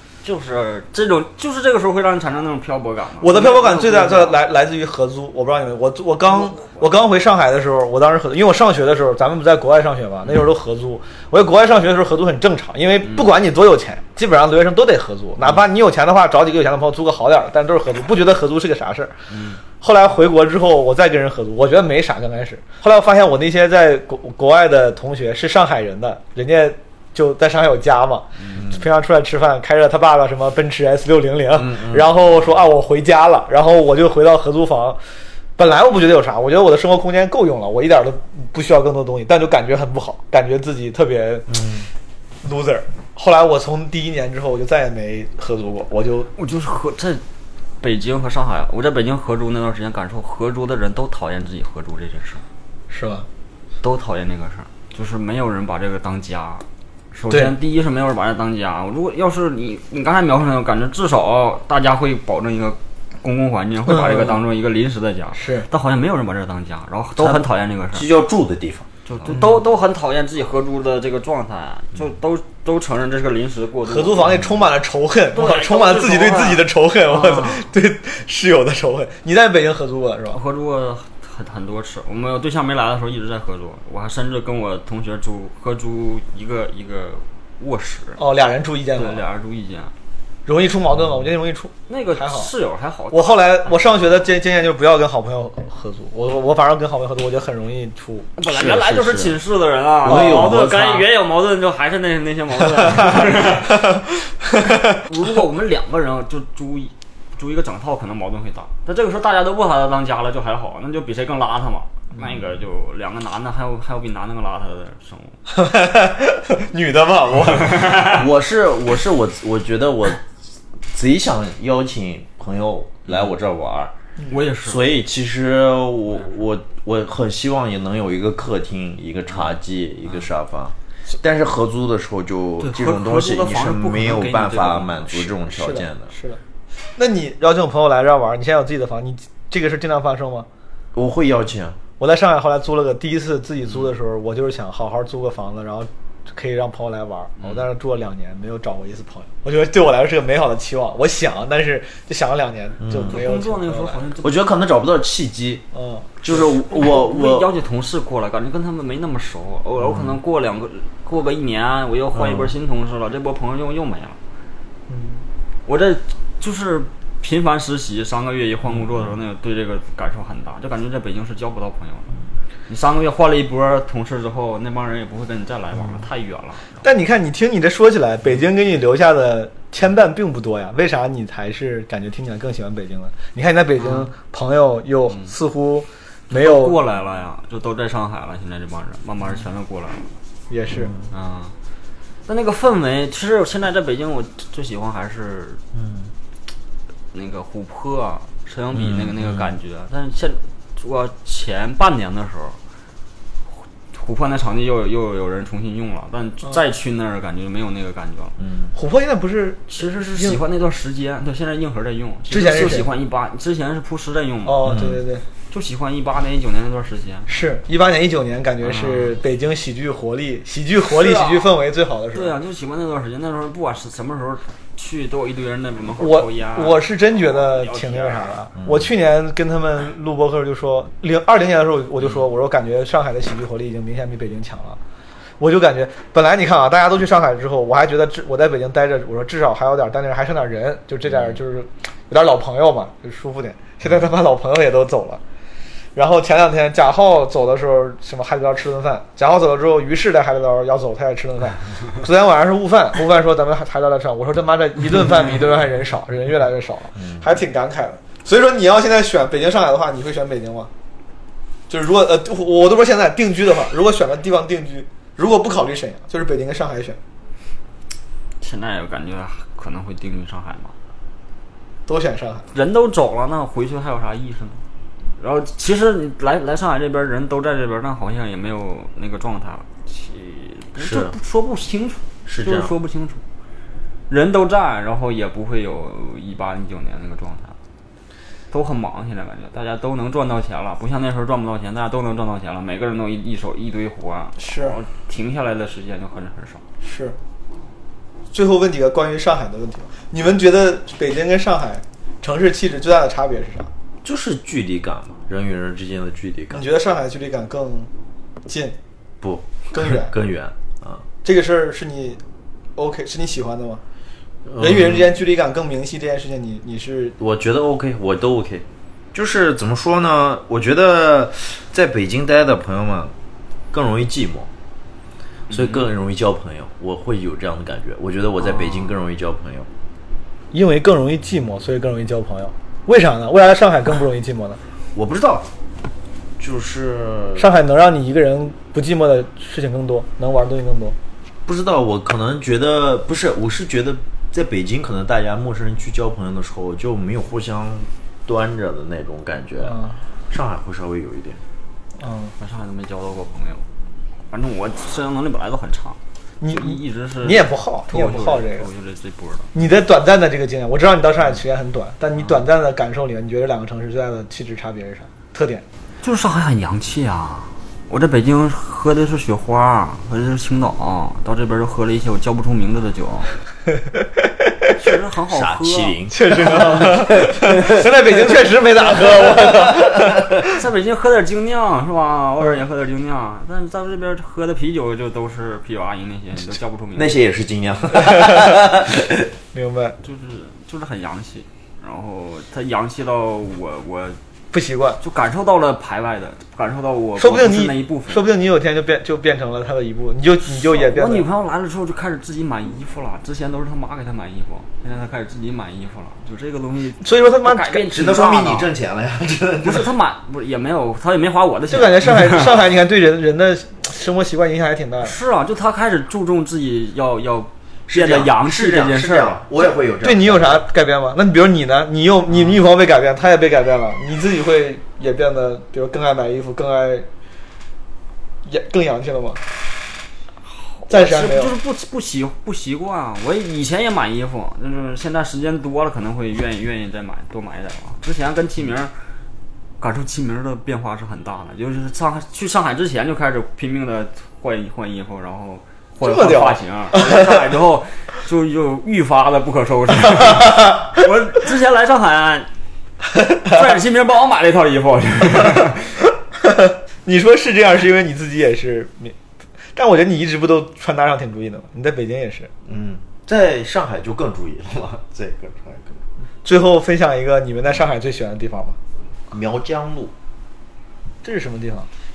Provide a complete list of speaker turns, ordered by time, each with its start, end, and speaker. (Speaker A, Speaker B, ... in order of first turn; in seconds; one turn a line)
Speaker A: 0.2-4.4
Speaker B: 3.2-19.1
Speaker A: 13.0-13.3
Speaker A: 19.3-19.6
Speaker B: 19.8-35.0
Speaker A: 28.4-28.6
Speaker C: 28.6-28.8
Speaker C: 31.6-32.0
Speaker B: 35.6-41.5
Speaker C: 41.5-41.9
Speaker B: 42.4-46.3
Speaker A: 46.4-47.2
Speaker A: 47.8-52.4
Speaker B: 52.9-53.3
Speaker A: 53.8-68.0
Speaker B: 57.3-57.5
Speaker B: 63.9-64.4
Speaker B: 65.3-65.7
Speaker C: 67.2-68.9
Speaker A: 69.1-74.3
Speaker B: 69.3-69.6
Speaker B: 73.8-80.4
Speaker A: 75.3-77.7
Speaker A: 80.3-88.2
Speaker B: 88.2-89.2
Speaker A: 88.9-89.9
Speaker B: 90.5-92.5
Speaker A: 91.9-93.7
Speaker B: 93.1-98.3
Speaker A: 98.4-103.9
Speaker C: 98.5-99.4
Speaker C: 100.0-101.0
Speaker B: 100.1-100.5
Speaker B: 102.8-105.0
Speaker A: 104.7-115.4
Speaker B: 115.5-118.2
Speaker C: 118.0-120.2
Speaker C: 120.9-123.9
Speaker A: 124.3-124.8
Speaker C: 124.6-136.1
Speaker A: 132.6-135.3
Speaker B: 135.5-136.4
Speaker B: 136.9-140.5
Speaker C: 140.9-141.8
Speaker B: 142.0-154.1
Speaker A: 147.4-147.7
Speaker C: 152.8-153.2
Speaker A: 153.1-154.4
Speaker C: 154.2-155.7
Speaker B: 155.7-156.3
Speaker C: 156.2-157.5
Speaker A: 156.3-164.2
Speaker C: 159.8-160.2
Speaker C: 162.2-162.5
Speaker B: 164.9-165.2
Speaker A: 165.7-172.1
Speaker A: 172.7-176.8
Speaker B: 176.8-186.8
Speaker A: 183.8-184.1
Speaker A: 186.3-190.1
Speaker B: 190.5-190.9
Speaker C: 190.7-191.1
Speaker A: 191.1-191.5
Speaker A: 192.3-195.6
Speaker C: 195.7-196.1
Speaker A: 197.1-202.6
Speaker C: 198.7-199.5
Speaker A: 203.9-208.3
Speaker C: 208.4-208.7
Speaker B: 208.7-210.4
Speaker A: 209.7-214.7
Speaker B: 212.3-212.9
Speaker B: 214.4-215.2
Speaker C: 214.6-215.0
Speaker A: 215.5-217.3
Speaker B: 217.3-222.3
Speaker A: 218.6-219.2
Speaker A: 220.9-221.5
Speaker A: 222.1-228.4
Speaker B: 226.0-234.8
Speaker C: 228.6-228.8
Speaker B: 235.4-245.2
Speaker B: 245.9-260.7
Speaker C: 257.0-257.2
Speaker B: 261.7-267.0
Speaker A: 268.4-270.7
Speaker B: 271.9-272.5
Speaker A: 272.5-274.6
Speaker A: 275.2-283.2
Speaker C: 280.8-281.1
Speaker C: 282.2-282.7
Speaker A: 284.1-287.6
Speaker A: 288.5-296.6
Speaker B: 294.4-294.8
Speaker B: 296.8-297.1
Speaker B: 298.3-303.7
Speaker C: 304.0-306.6
Speaker B: 306.5-307.9
Speaker B: 308.4-308.8
Speaker C: 309.2-311.0
Speaker B: 309.7-310.1
Speaker B: 311.2-312.2
Speaker B: 312.8-313.8
Speaker C: 314.4-315.1
Speaker B: 314.6-317.1
Speaker C: 317.2-323.1
Speaker C: 323.7-324.5
Speaker A: 325.5-325.9
Speaker C: 325.5-329.7
Speaker A: 328.5-328.9
Speaker B: 330.5-334.6
Speaker C: 334.9-335.5
Speaker C: 336.4-337.5
Speaker B: 337.4-341.0
Speaker C: 341.4-349.8
Speaker B: 349.6-349.9
Speaker C: 350.3-351.4
Speaker B: 352.0-352.3
Speaker A: 352.4-353.6
Speaker A: 354.3-356.0
Speaker B: 356.4-358.7
Speaker A: 356.5-359.5
Speaker B: 359.5-365.6
Speaker A: 366.0-373.4
Speaker B: 373.9-374.5
Speaker A: 374.8-375.9
Speaker C: 375.3-378.2
Speaker B: 376.1-380.5
Speaker C: 379.0-380.3
Speaker A: 380.5-387.2
Speaker C: 386.9-389.3
Speaker B: 388.0-388.5
Speaker B: 389.5-389.9
Speaker A: 390.0-394.2
Speaker B: 394.5-395.0
Speaker A: 395.0-398.2
Speaker B: 397.2-401.3
Speaker A: 400.5-408.7
Speaker B: 407.0-407.9
Speaker C: 407.9-409.9
Speaker A: 409.6-412.6
Speaker B: 411.7-415.1
Speaker A: 415.0-419.4
Speaker C: 417.9-420.6
Speaker B: 420.0-427.1
Speaker B: 428.4-429.4
Speaker A: 430.4-438.9
Speaker B: 430.9-431.6
Speaker A: 439.8-452.5
Speaker B: 446.0-447.3
Speaker B: 450.4-450.8
Speaker A: 453.4-455.9
Speaker B: 456.4-459.1
Speaker B: 459.7-462.5
Speaker C: 462.7-466.0
Speaker B: 466.4-468.8
Speaker C: 469.3-470.1
Speaker B: 471.2-471.9